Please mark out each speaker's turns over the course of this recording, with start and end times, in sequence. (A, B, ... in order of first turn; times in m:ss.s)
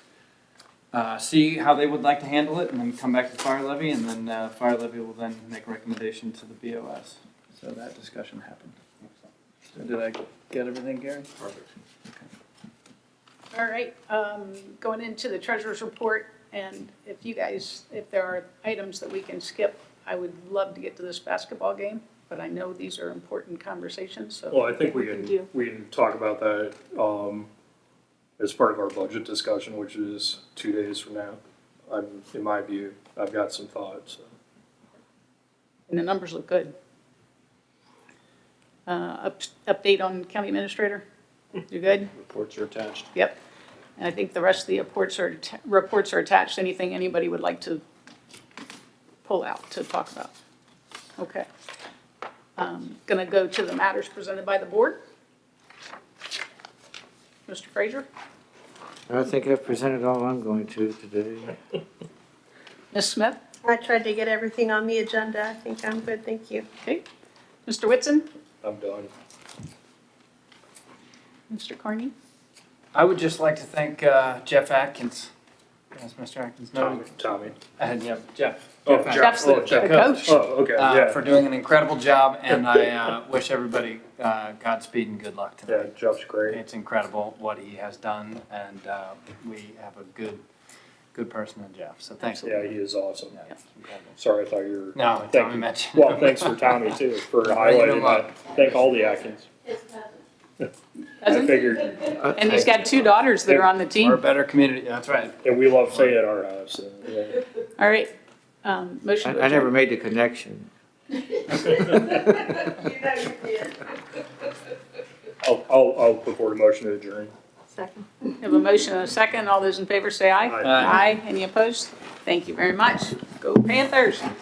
0:00.9-0:08.8 A
0:09.7-0:12.2 A
0:13.5-0:24.7 B
0:24.5-0:27.5 C
0:24.8-0:25.5 D
0:28.4-0:34.3 C
0:35.9-0:36.7 B
0:38.8-0:41.0 B
0:41.7-0:42.1 B
0:42.1-0:43.1 A
0:44.0-0:47.8 B
0:49.2-0:50.3 B
0:51.2-0:51.5 B
0:52.6-0:55.0 B
0:57.5-0:58.1 B
0:59.1-1:01.6 E
1:02.9-1:03.4 B
1:03.6-1:06.6 D
1:07.6-1:08.3 B
1:08.6-1:09.1 C
1:11.5-1:12.1 B
1:12.9-1:15.3 A
1:15.9-1:25.9 A
1:16.8-1:17.6 C
1:18.8-1:21.2 C
1:19.1-1:20.3 B
1:25.7-1:26.6 C
1:26.5-1:30.4 A
1:31.1-1:32.6 A
1:32.2-1:32.5 B
1:32.4-1:33.4 C
1:33.3-1:34.2 A
1:34.2-1:39.5 C
1:34.9-1:38.8 A
1:39.6-1:40.0 D
1:41.2-1:44.2 B
1:41.2-1:42.5 C
1:43.5-1:46.1 A
1:45.4-1:47.4 C
1:47.8-1:48.1 B
1:48.6-1:49.7 B
1:49.2-1:50.7 E
1:52.9-1:53.7 D
1:55.4-1:57.3 C
1:57.7-1:58.3 D
1:58.4-2:04.3 B
2:00.4-2:00.9 C
2:00.6-2:01.1 A